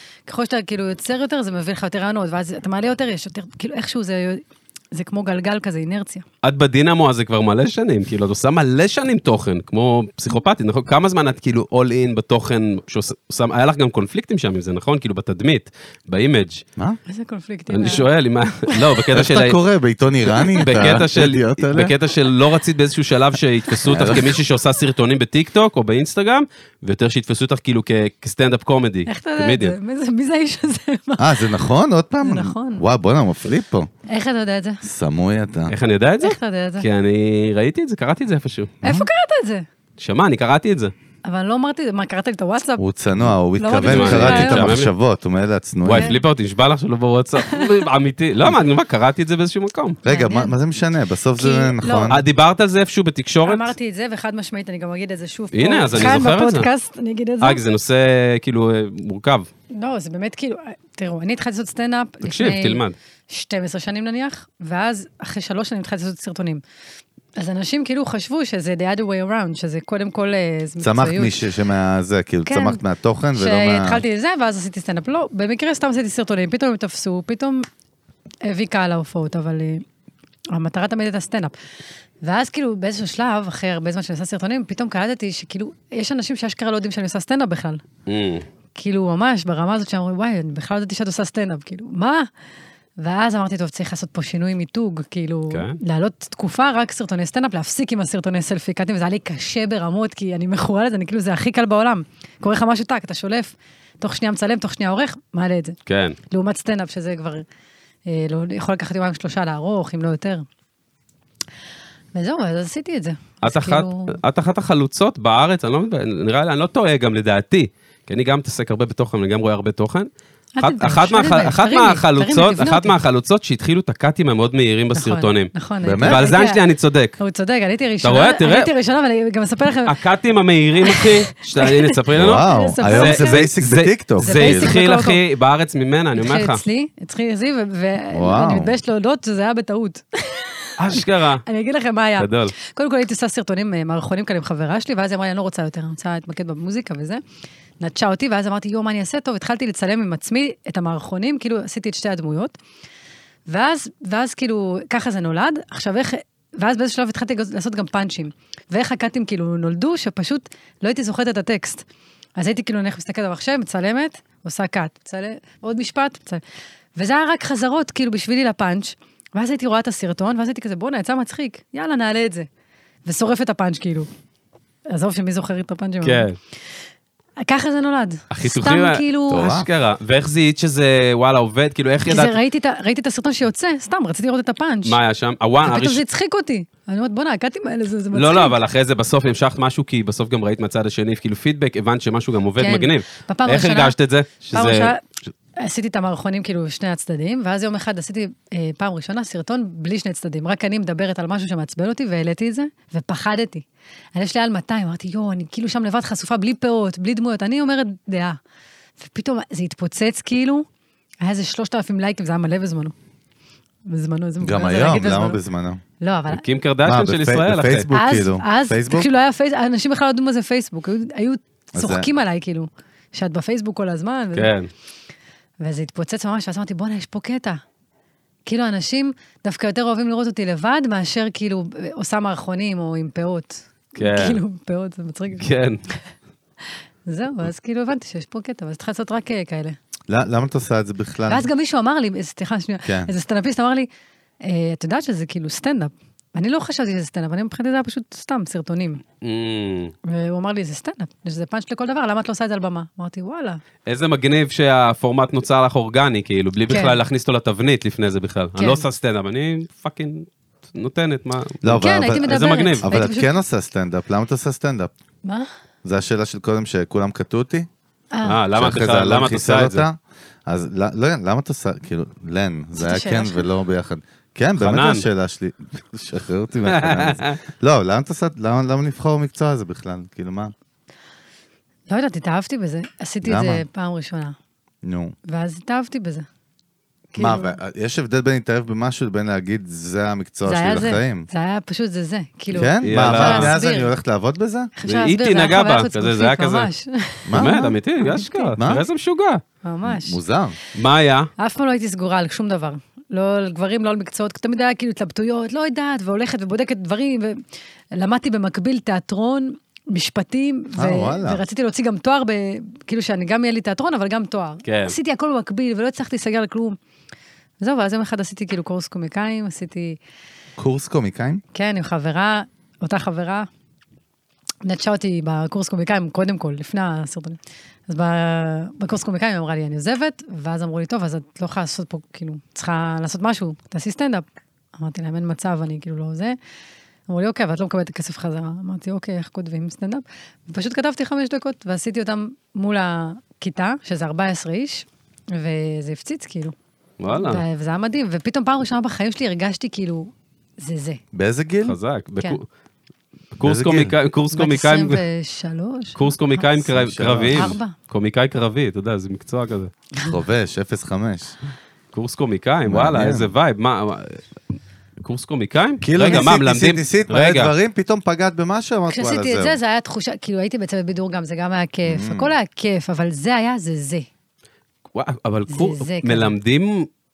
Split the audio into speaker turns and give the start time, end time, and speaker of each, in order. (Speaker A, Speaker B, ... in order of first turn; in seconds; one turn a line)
Speaker A: 0.2-6.2
Speaker B: 6.4-16.6
Speaker A: 17.1-18.1
Speaker B: 17.7-19.6
Speaker C: 19.1-21.9
Speaker B: 20.6-29.8
Speaker C: 23.8-24.4
Speaker A: 29.1-31.5
Speaker C: 31.2-33.9
Speaker A: 32.2-32.8
Speaker A: 34.1-34.8
Speaker C: 34.8-35.7
Speaker B: 35.7-38.8
Speaker A: 36.2-36.9
Speaker A: 38.8-39.6
Speaker B: 40.0-40.9
Speaker A: 41.2-42.8
Speaker C: 42.8-46.1
Speaker A: 43.5-44.7
Speaker B: 43.8-44.9
Speaker B: 45.8-50.0
Speaker A: 45.9-46.2
Speaker A: 47.5-47.7
Speaker C: 50.0-52.2
Speaker A: 50.0-50.5
Speaker A: 51.4-52.1
Speaker B: 52.1-53.7
Speaker A: 53.4-57.6
Speaker B: 55.5-56.7
Speaker B: 57.4-59.5
Speaker A: 59.7-66.6
Speaker B: 62.2-63.0
Speaker A: 67.4-71.4
Speaker C: 70.8-74.0
Speaker A: 72.5-72.8
Speaker A: 73.3-77.7
Speaker A: 78.4-79.8
Speaker A: 80.5-81.5
Speaker A: 82.2-87.8
Speaker B: 88.1-88.5
Speaker A: 88.7-92.3
Speaker A: 93.0-105.8
Speaker B: 95.5-95.8
Speaker B: 105.9-106.2
Speaker A: 106.3-107.4
Speaker A: 108.0-110.5
Speaker A: 112.1-114.2
Speaker B: 113.4-125.5
Speaker A: 120.6-123.0
Speaker A: 124.9-126.6
Speaker C: 125.8-126.3
Speaker B: 126.0-127.2
Speaker A: 127.2-129.9
Speaker B: 128.0-128.7
Speaker B: 129.9-136.6
Speaker A: 130.8-133.5
Speaker C: 132.1-134.7
Speaker A: 134.2-135.2
Speaker A: 136.2-147.2
Speaker C: 138.1-138.7
Speaker B: 140.8-141.4
Speaker B: 142.2-142.5
Speaker A: 147.8-152.6
Speaker A: 153.5-161.8
Speaker A: 162.4-166.4
Speaker A: 166.9-172.5
Speaker A: 173.0-174.1
Speaker A: 174.9-176.3
Speaker B: 176.0-176.4
Speaker A: 177.4-179.6
Speaker B: 178.3-182.4
Speaker C: 179.3-179.7
Speaker A: 182.1-185.0
Speaker B: 184.8-186.0
Speaker A: 185.6-188.6
Speaker B: 188.1-194.9
Speaker A: 192.6-193.9
Speaker A: 194.5-195.0
Speaker A: 195.6-208.4
Speaker A: 209.0-210.7
Speaker A: 211.2-212.9
Speaker A: 213.9-215.4
Speaker C: 214.4-215.8
Speaker A: 216.0-216.4
Speaker B: 216.3-217.9
Speaker C: 216.8-219.1
Speaker A: 217.9-224.5
Speaker C: 221.7-222.1
Speaker B: 224.3-224.7
Speaker A: 225.6-227.6
Speaker A: 228.4-236.0
Speaker B: 234.0-234.4
Speaker B: 235.4-235.8
Speaker A: 237.1-239.8
Speaker C: 240.1-241.5
Speaker A: 241.3-243.9
Speaker C: 242.8-243.1
Speaker A: 244.4-249.0
Speaker B: 249.2-249.9
Speaker A: 250.1-253.6
Speaker B: 253.9-262.9
Speaker A: 256.7-257.0
Speaker A: 258.6-258.8
Speaker C: 261.6-264.9
Speaker A: 261.7-263.3
Speaker C: 265.8-267.7
Speaker A: 268.1-268.4
Speaker B: 268.2-269.9
Speaker C: 268.5-280.5
Speaker A: 272.8-273.5
Speaker B: 274.6-275.1
Speaker B: 276.7-277.4
Speaker A: 281.9-284.4
Speaker C: 283.2-283.6
Speaker C: 284.8-285.1
Speaker A: 285.3-286.2
Speaker A: 287.1-287.6
Speaker C: 287.2-291.3
Speaker A: 290.4-293.9
Speaker C: 292.5-294.7
Speaker B: 292.8-293.5
Speaker A: 294.8-298.6
Speaker B: 294.9-296.7
Speaker C: 297.2-297.6
Speaker B: 297.3-299.4
Speaker C: 298.6-298.8
Speaker A: 299.6-300.2
Speaker C: 299.8-300.6
Speaker B: 300.7-301.3
Speaker A: 301.4-307.4
Speaker A: 307.9-316.8
Speaker C: 310.8-311.4
Speaker B: 314.6-314.9
Speaker A: 317.6-320.0
Speaker C: 320.6-321.4
Speaker A: 321.5-323.5
Speaker A: 324.6-336.4
Speaker A: 337.1-346.5
Speaker B: 347.0-347.4
Speaker A: 347.1-351.0
Speaker C: 351.1-351.8
Speaker B: 351.6-352.4
Speaker B: 353.4-355.0
Speaker C: 353.4-353.9
Speaker A: 354.3-356.5
Speaker B: 355.9-359.7
Speaker C: 356.6-357.6
Speaker A: 357.3-357.7
Speaker C: 360.0-361.3
Speaker B: 361.9-364.2
Speaker C: 362.7-363.3
Speaker B: 365.0-367.5
Speaker C: 365.8-369.6
Speaker A: 368.9-374.1
Speaker C: 371.9-372.3
Speaker B: 374.9-376.9
Speaker A: 375.5-376.4